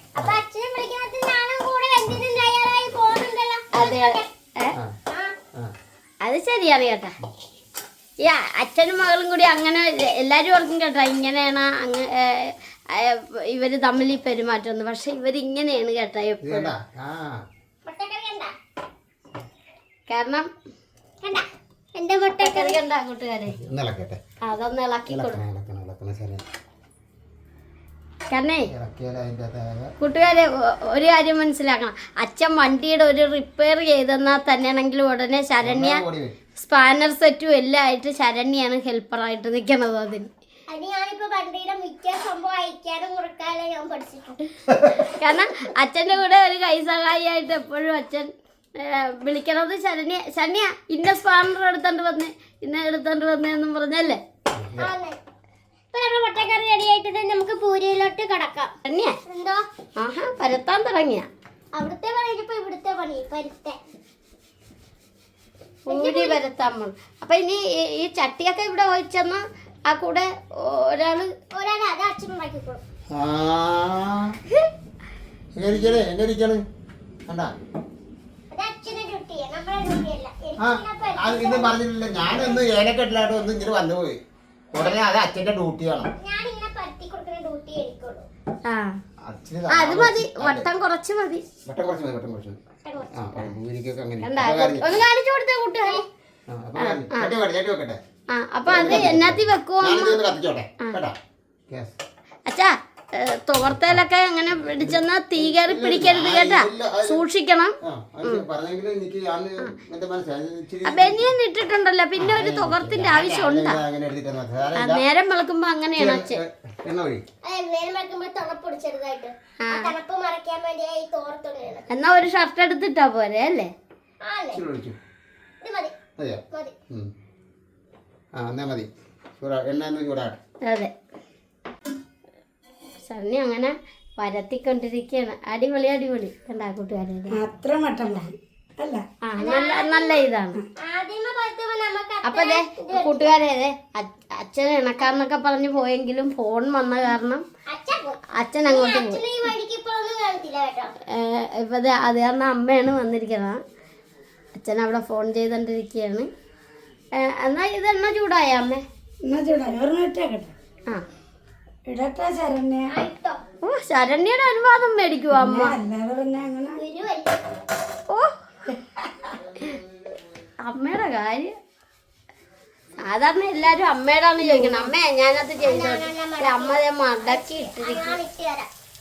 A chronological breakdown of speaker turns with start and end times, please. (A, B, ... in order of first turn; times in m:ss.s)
0:00.2-0:04.3 A
0:03.7-0:04.0 B
0:03.8-0:04.8 C
0:06.2-0:07.2 C
0:08.2-0:16.7 C
0:16.4-0:17.4 B
0:17.8-0:18.5 A
0:20.1-0:20.5 C
0:21.2-0:22.8 A
0:22.4-0:23.6 C
0:23.5-0:24.2 B
0:24.4-0:25.4 C
0:25.1-0:26.4 B
0:28.3-0:28.7 C
0:28.7-0:29.9 B
0:30.0-0:36.0 C
0:35.6-0:36.4 B
0:36.6-0:40.3 C
0:40.7-0:44.4 A
0:44.7-0:45.0 B
0:45.0-0:54.2 C
0:54.5-0:54.9 B
0:54.8-0:55.2 A
0:55.9-0:58.7 A
0:58.9-0:59.2 C
0:59.3-0:59.7 A
1:00.0-1:01.3 C
1:01.7-1:03.8 A
1:05.9-1:06.4 A
1:05.9-1:11.3 C
1:11.5-1:12.8 A
1:13.1-1:14.4 B
1:15.6-1:16.6 B
1:17.3-1:17.5 B
1:18.5-1:22.6 A
1:20.6-1:24.2 B
1:24.7-1:26.1 B
1:26.2-1:28.3 A
1:28.7-1:29.0 C
1:29.2-1:30.7 B
1:29.7-1:31.4 C
1:31.7-1:32.6 B
1:32.8-1:33.5 A
1:33.2-1:34.9 B
1:34.2-1:36.0 C
1:36.5-1:38.0 B
1:36.8-1:37.4 C
1:38.3-1:40.2 C
1:38.6-1:41.2 B
1:41.7-1:41.9 B
1:42.5-1:48.4 C
1:43.7-1:44.0 B
1:44.8-1:47.2 B
1:47.8-1:51.3 B
1:50.9-1:53.8 C
1:52.2-1:55.0 B
1:54.8-1:56.4 C
1:56.0-1:57.2 B
1:57.4-2:01.9 A
1:59.6-1:59.9 C
2:01.9-2:03.7 C
2:04.2-2:04.6 A
2:04.5-2:05.0 B
2:05.6-2:05.9 A
2:06.2-2:07.1 B
2:08.4-2:08.9 B
2:09.4-2:10.4 B
2:10.6-2:10.9 C
2:13.0-2:17.4 C
2:17.3-2:19.1 D
2:19.3-2:20.6 C
2:19.4-2:20.2 A
2:20.8-2:23.3 A
2:22.2-2:27.4 C
2:27.7-2:30.9 A
2:28.4-2:29.2 C
2:31.1-2:33.6 C
2:34.6-2:36.3 C
2:37.2-2:38.8 C
2:39.2-2:40.5 D
2:41.9-2:42.9 D
2:42.9-2:43.4 A
2:43.6-2:45.8 C
2:45.3-2:46.8 D
2:46.8-2:47.4 A
2:50.6-2:51.5 C
2:53.0-2:58.2 C
2:54.4-2:54.9 D
2:55.6-2:58.7 A